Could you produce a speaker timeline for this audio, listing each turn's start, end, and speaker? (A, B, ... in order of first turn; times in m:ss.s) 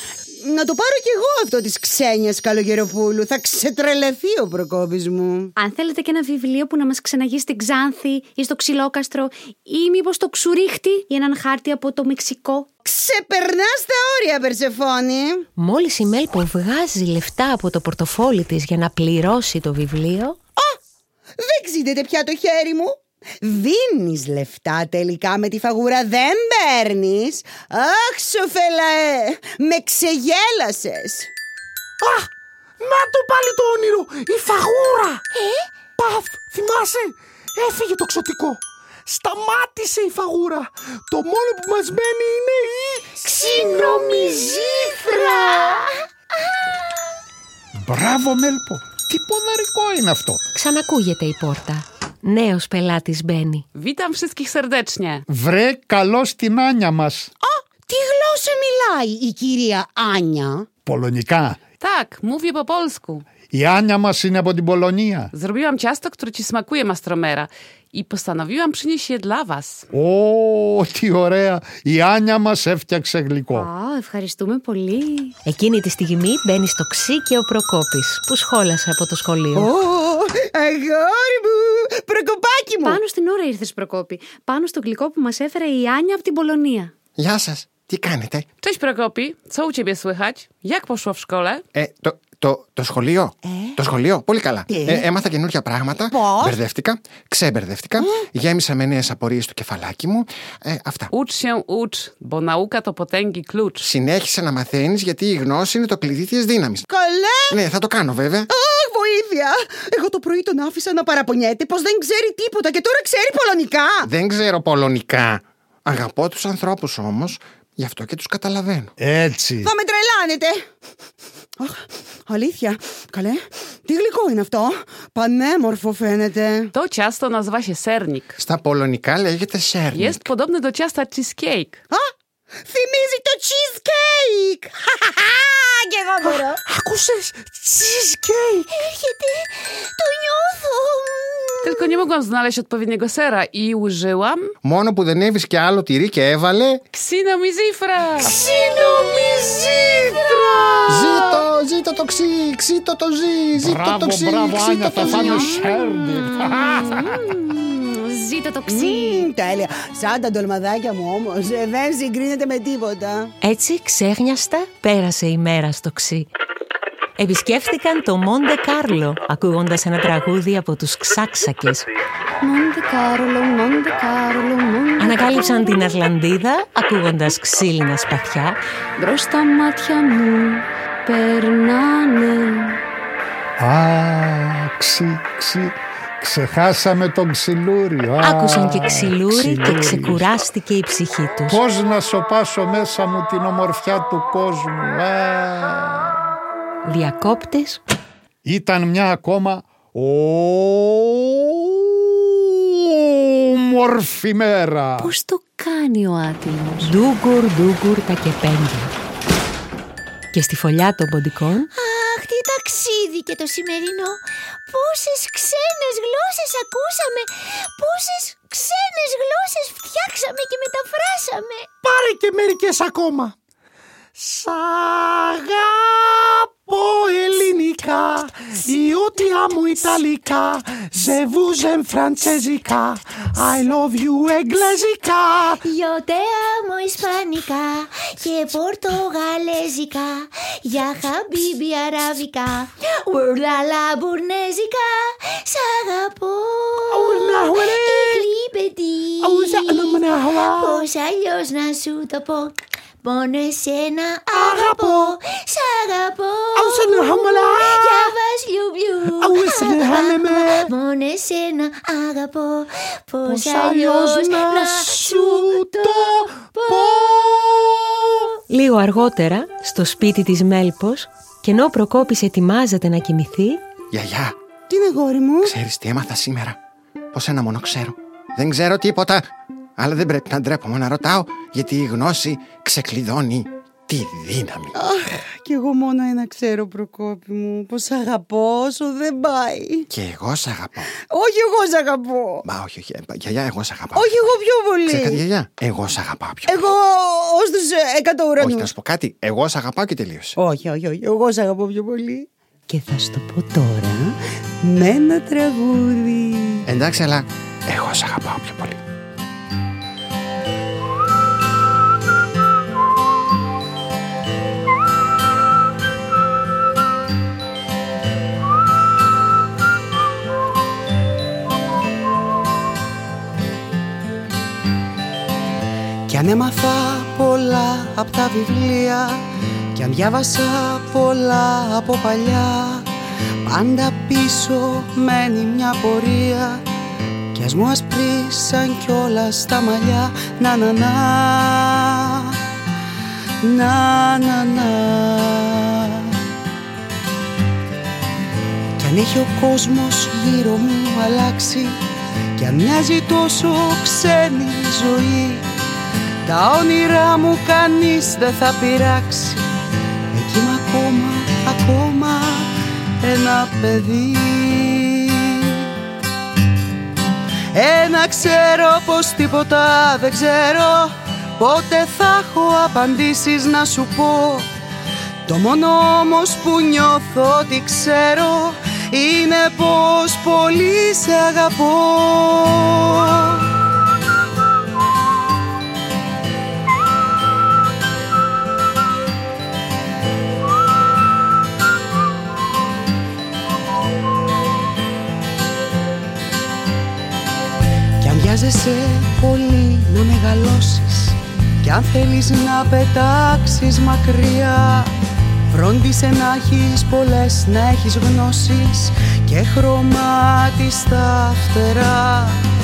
0:00.4-0:05.5 A
0:05.6-0:12.7 B
0:12.8-0:15.5 A
0:15.6-0:20.4 C
0:21.4-0:31.3 A
0:32.0-0:32.3 D
0:32.8-0:35.2 D
0:35.3-0:35.7 E
0:36.0-0:45.8 D
0:43.2-0:47.0 E
0:47.8-0:50.4 F
0:50.6-0:53.6 C
0:53.8-0:55.2 G
0:55.3-0:57.3 F
0:57.4-1:00.7 A
1:00.9-1:01.6 F
1:01.8-1:03.2 G
1:03.5-1:05.3 F
1:05.3-1:09.9 G
1:09.9-1:13.7 F
1:13.6-1:15.4 B
1:15.5-1:19.7 C
1:19.5-1:23.0 A
1:22.8-1:26.9 B
1:27.2-1:28.5 H
1:28.6-1:31.6 G
1:31.8-1:41.1 H
1:33.4-1:33.8 A
1:34.7-1:35.1 A
1:36.1-1:36.6 A
1:38.0-1:38.3 A
1:41.1-1:43.9 G
1:43.8-1:46.9 H
1:46.9-1:47.6 A
1:47.5-1:48.5 H
1:48.5-1:54.1 A
1:54.0-1:58.9 H
1:59.0-1:59.7 F
1:59.6-2:00.6 A
2:01.6-2:06.7 A
2:06.8-2:08.4 G
2:08.4-2:10.2 H
2:09.9-2:11.8 G
2:12.7-2:16.6 A
2:16.2-2:18.7 D
2:18.7-2:21.9 E
2:21.6-2:24.5 G
2:24.6-2:26.8 H
2:26.9-2:28.3 G
2:28.2-2:30.4 E
2:30.9-2:35.4 H
2:33.6-2:37.2 F
2:35.0-2:35.6 B
2:36.5-2:39.3 B
2:38.7-2:43.3 A
2:43.4-2:46.3 C
2:47.2-2:51.9 C
2:52.4-2:55.8 B
2:55.0-2:58.6 C
2:59.0-3:02.8 B
3:03.6-3:10.3 F
3:08.2-3:11.6 C
3:11.5-3:16.1 F
3:16.9-3:17.8 C
3:18.4-3:25.1 F
3:25.0-3:26.9 B
3:26.8-3:28.9 C
3:30.3-3:31.7 C
3:31.7-3:41.7 E
3:41.8-3:43.4 D
3:44.2-3:55.6 D
3:55.6-4:10.0 E
4:06.9-4:08.3 D
4:09.2-4:10.9 D
4:10.5-4:27.4 E
4:14.3-4:15.2 D
4:16.6-4:18.1 D
4:19.2-4:20.7 D
4:23.3-4:27.7 D
4:28.5-4:33.6 C
4:33.9-4:34.4 H
4:34.7-4:35.5 A
4:35.4-4:36.6 H
4:37.1-4:44.8 H
4:44.8-4:49.9 A
4:49.9-4:50.9 H
4:51.0-4:52.4 A
4:52.5-4:54.2 H
4:53.9-4:55.2 A
4:54.9-4:56.6 H
4:56.5-4:58.7 A
4:58.4-5:00.4 H
5:00.4-5:06.6 A
5:06.7-5:08.8 H
5:26.1-5:29.2 A
5:29.8-5:32.9 A
5:33.5-5:36.6 A
5:37.4-5:42.4 A
5:43.4-5:46.2 A
5:48.8-5:51.8 A
5:52.4-5:55.5 A
5:56.3-5:59.5 A
6:00.1-6:05.7 A
6:07.5-6:14.5 A
6:15.3-6:23.4 A
6:38.0-6:44.9 A
6:45.5-6:52.4 A